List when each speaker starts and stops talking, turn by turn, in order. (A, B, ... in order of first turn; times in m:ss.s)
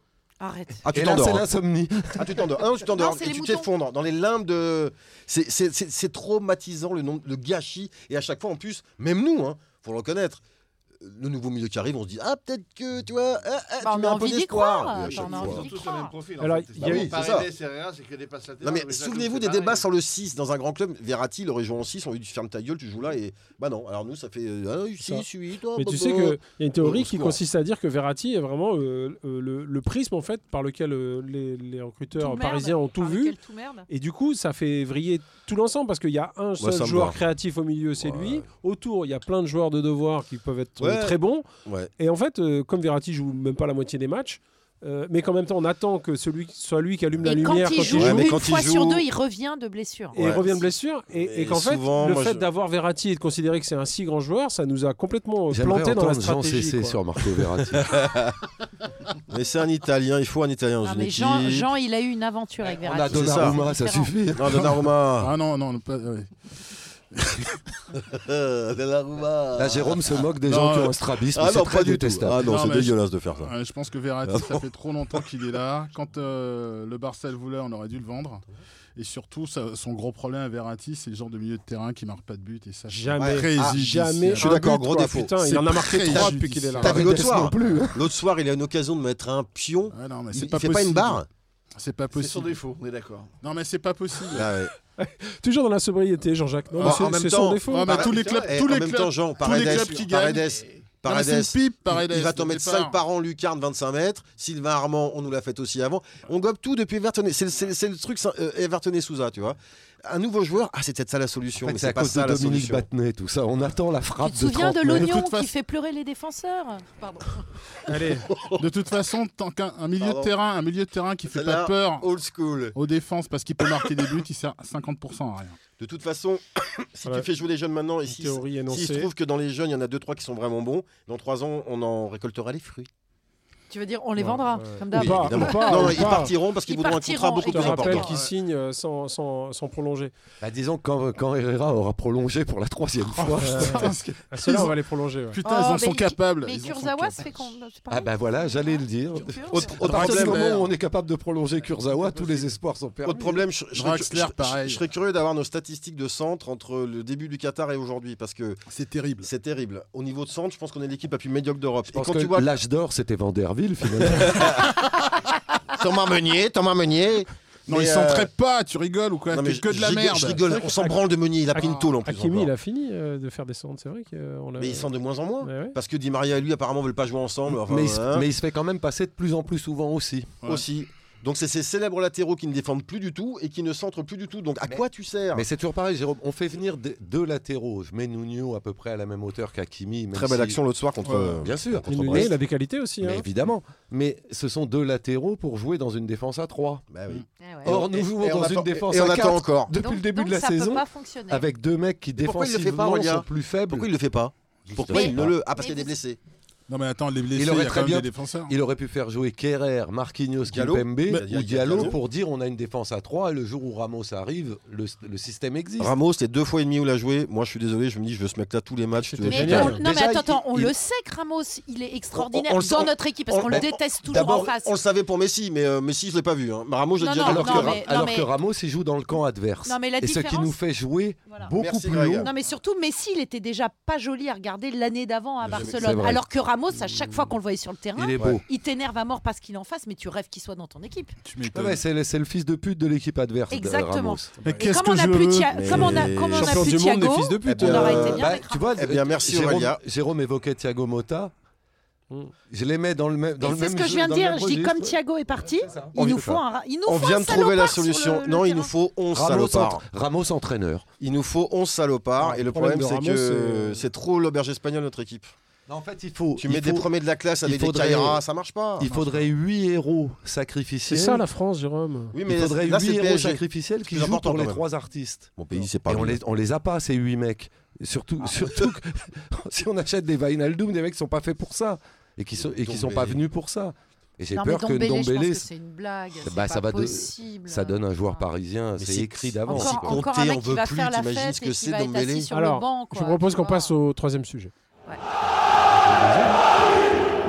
0:00.4-0:00.9 A
0:00.8-0:01.5 B
0:00.9-0:02.5 C
0:02.2-0:10.4 B
0:02.9-0:03.7 A
0:11.0-0:15.7 B
0:13.8-0:16.1 A
0:15.0-0:19.9 D
0:16.4-0:17.1 E
0:16.8-0:17.5 B
0:18.6-0:27.4 B
0:25.0-0:33.4 E
0:32.2-0:33.9 A
0:33.9-0:41.4 E
0:36.6-0:37.2 B
0:38.0-0:38.5 B
0:40.8-0:41.9 B
0:42.0-0:48.4 E
0:47.2-0:50.2 A
0:47.9-0:49.0 B
0:50.1-0:57.0 E
0:50.2-0:52.5 B
0:55.5-0:58.0 C
0:57.8-0:58.4 B
0:59.3-1:01.7 B
1:00.8-1:04.1 A
1:02.8-1:04.7 C
1:03.1-1:03.6 B
1:04.4-1:05.3 B
1:05.2-1:06.3 F
1:07.2-1:07.6 F
1:08.0-1:10.2 B
1:09.6-1:12.5 C
1:10.5-1:11.0 F
1:11.3-1:13.5 B
1:12.4-1:18.4 F
1:14.3-1:15.2 B
1:19.0-1:24.8 F
1:22.9-1:27.3 E
1:23.2-1:23.8 B
1:24.4-1:31.3 B
1:25.4-1:27.1 F
1:26.8-1:28.1 C
1:29.9-1:31.2 F
1:31.8-1:32.6 F
1:32.1-1:33.3 D
1:33.4-1:34.5 F
1:34.3-1:34.7 B
1:35.0-1:38.1 E
1:36.7-1:37.1 F
1:36.8-1:52.9 B
1:37.6-1:40.5 F
1:38.1-1:38.5 D
1:39.5-1:41.0 D
1:41.0-1:43.0 F
1:51.6-1:55.2 C
1:54.2-1:57.5 A
1:54.9-1:55.5 F
1:57.9-1:58.3 E
1:58.3-1:58.6 B
1:58.6-2:02.1 F
2:00.0-2:00.3 B
2:01.3-2:02.8 B
2:02.8-2:05.6 F
2:05.8-2:12.9 B
2:08.1-2:09.1 E
2:13.7-2:18.2 A
2:14.2-2:16.3 E
2:14.9-2:18.1 B
2:17.5-2:20.1 E
2:20.4-2:24.1 C
2:23.2-2:24.8 F
2:23.4-2:25.4 E
2:25.3-2:27.4 F
2:25.4-2:30.1 A
2:27.9-2:33.4 C
2:29.5-2:30.6 B
2:29.8-2:30.7 F
2:31.8-2:32.5 D
2:33.0-2:38.6 B
2:33.7-2:34.8 F
2:38.7-2:39.3 F
2:39.2-2:42.5 B
2:41.9-2:44.7 C
2:44.0-2:44.8 B
2:45.7-2:48.3 B
2:47.7-2:50.5 F
2:49.3-2:52.5 B
2:50.5-2:51.0 E
2:51.5-2:54.9 E
2:54.6-2:58.3 B
2:55.4-2:55.8 E
2:57.5-3:00.4 C
3:00.4-3:05.5 B
3:04.6-3:10.6 C
3:10.1-3:12.3 B
3:11.0-3:11.4 F
3:11.4-3:12.3 C
3:11.9-3:13.3 E
3:13.0-3:16.8 C
3:16.9-3:19.7 B
3:17.4-3:17.8 A
3:17.6-3:23.9 C
3:19.8-3:21.4 A
3:22.2-3:26.2 B
3:24.7-3:25.4 C
3:24.9-3:26.0 A
3:26.7-3:28.5 F
3:27.4-3:36.0 C
3:30.5-3:32.0 B
3:31.1-3:31.8 F
3:35.8-3:39.9 B
3:39.0-3:39.8 E
3:39.3-3:44.8 A
3:39.4-3:40.7 C
3:42.2-3:47.8 B
3:43.5-3:44.5 C
3:47.0-3:48.3 A
3:47.2-3:52.3 C
3:49.6-3:50.6 A
3:51.5-3:52.3 B
3:52.2-4:01.2 A
3:55.4-3:56.1 B
3:55.5-3:56.2 C
3:58.0-3:58.4 C
4:01.2-4:01.8 F
4:01.5-4:04.3 C
4:03.5-4:08.8 A
4:04.4-4:04.7 E
4:04.4-4:06.0 F
4:05.5-4:06.8 B
4:06.2-4:08.2 E
4:07.5-4:09.8 B
4:07.9-4:11.3 C
4:12.5-4:16.4 C
4:13.4-4:18.7 A
4:16.9-4:19.8 B
4:19.1-4:20.9 C
4:21.0-4:25.3 B
4:22.2-4:23.8 E
4:25.7-4:26.9 C
4:26.4-4:29.2 B
4:27.4-4:28.2 C
4:28.8-4:31.2 C
4:30.9-4:32.2 E
4:32.1-4:34.6 B
4:32.2-4:35.4 C
4:35.4-4:36.2 B
4:35.9-4:45.5 C
4:42.4-4:43.2 B
4:44.3-4:48.2 A
4:46.2-4:50.0 C
4:48.8-4:52.3 B
4:49.5-4:53.7 A
4:52.3-4:54.5 E
4:55.7-4:56.4 C